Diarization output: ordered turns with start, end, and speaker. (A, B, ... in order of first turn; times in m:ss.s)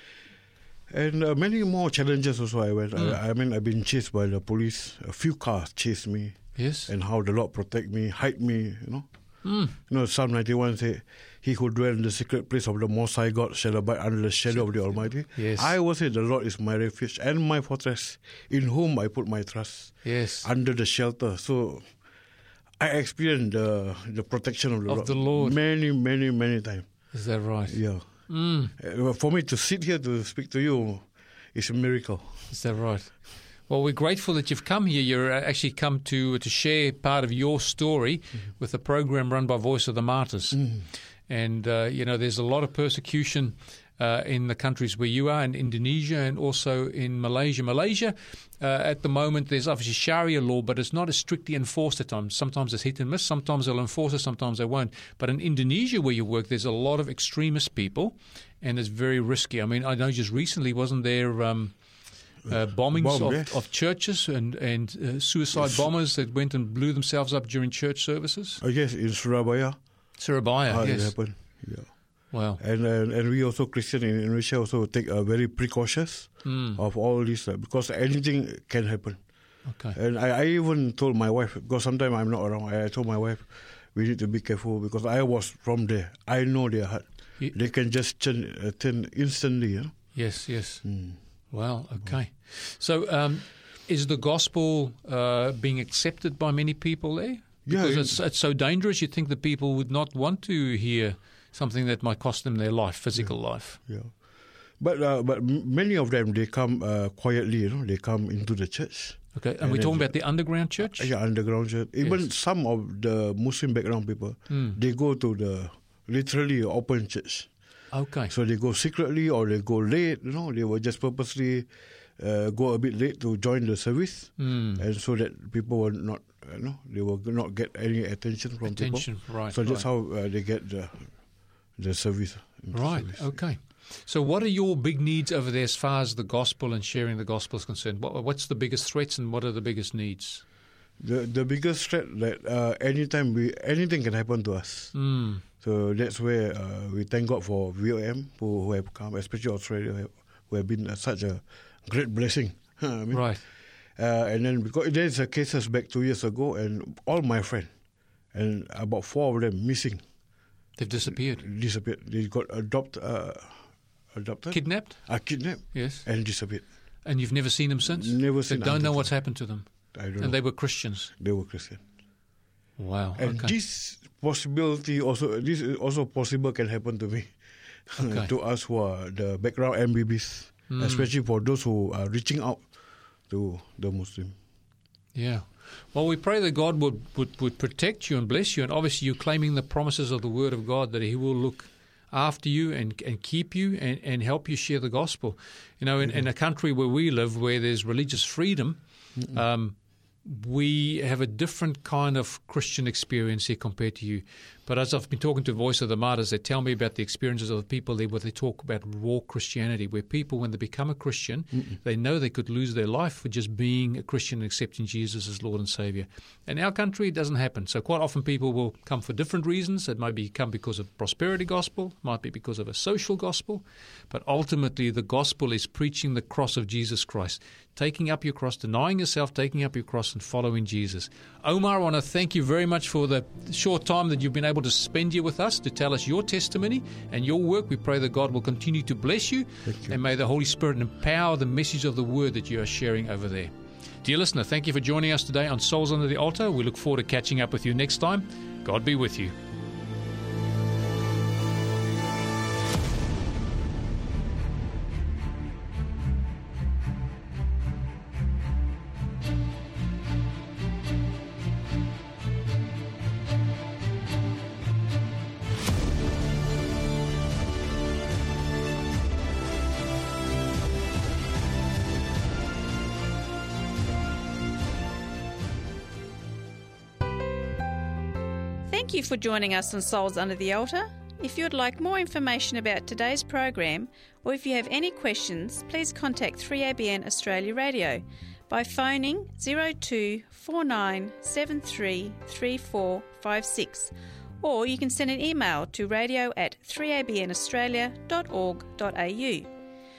0:00.9-0:09.0 A
0:06.6-0:06.9 B
0:09.4-0:09.8 B
0:09.8-0:21.8 A
0:15.3-0:15.8 B
0:20.0-0:20.5 B
0:22.8-0:26.9 A
0:24.9-0:25.6 B
0:27.1-0:28.7 B
0:27.7-0:28.0 A
0:28.8-0:32.5 A
0:32.5-0:40.7 B
0:41.3-1:01.7 B
1:02.4-1:03.6 A
1:02.5-1:08.6 B
1:08.6-1:09.8 A
1:10.2-1:11.1 B
1:10.7-1:11.9 A
1:12.3-1:12.6 B
1:12.6-1:19.2 A
1:16.4-1:16.8 B
1:19.7-1:20.0 B
1:19.9-1:29.9 A
1:30.1-1:30.8 B
1:30.8-1:31.2 A
1:31.5-1:43.8 B
1:37.6-1:38.2 A
1:43.8-1:44.1 A
1:44.8-1:50.2 A
1:49.3-1:51.1 B
1:50.8-1:57.5 A
1:54.5-1:54.8 B
1:57.9-1:58.3 B
1:58.3-2:11.1 A
2:04.4-2:04.8 B
2:08.6-2:09.8 B
2:11.8-2:13.4 A
2:12.7-2:20.4 B
2:21.0-2:24.9 A
2:24.9-2:25.4 B
2:25.6-2:33.3 A
2:33.1-2:33.4 B
2:34.0-2:37.7 A
2:38.3-2:40.0 A
2:40.8-2:41.4 B
2:41.4-2:43.6 A
2:44.1-2:46.6 A
2:44.5-2:45.0 B
2:45.7-2:46.0 B
2:47.0-2:51.1 B
2:47.8-2:49.1 A
2:49.9-2:50.4 A
2:51.1-2:51.8 A
2:52.8-2:53.5 B
2:53.2-2:57.3 A
2:57.9-3:02.6 A
2:57.9-2:58.3 B
3:00.7-3:01.1 B
3:03.3-3:04.3 A
3:05.1-4:03.5 B
3:59.7-4:00.0 A
4:04.0-4:09.3 B
4:38.7-4:59.5 C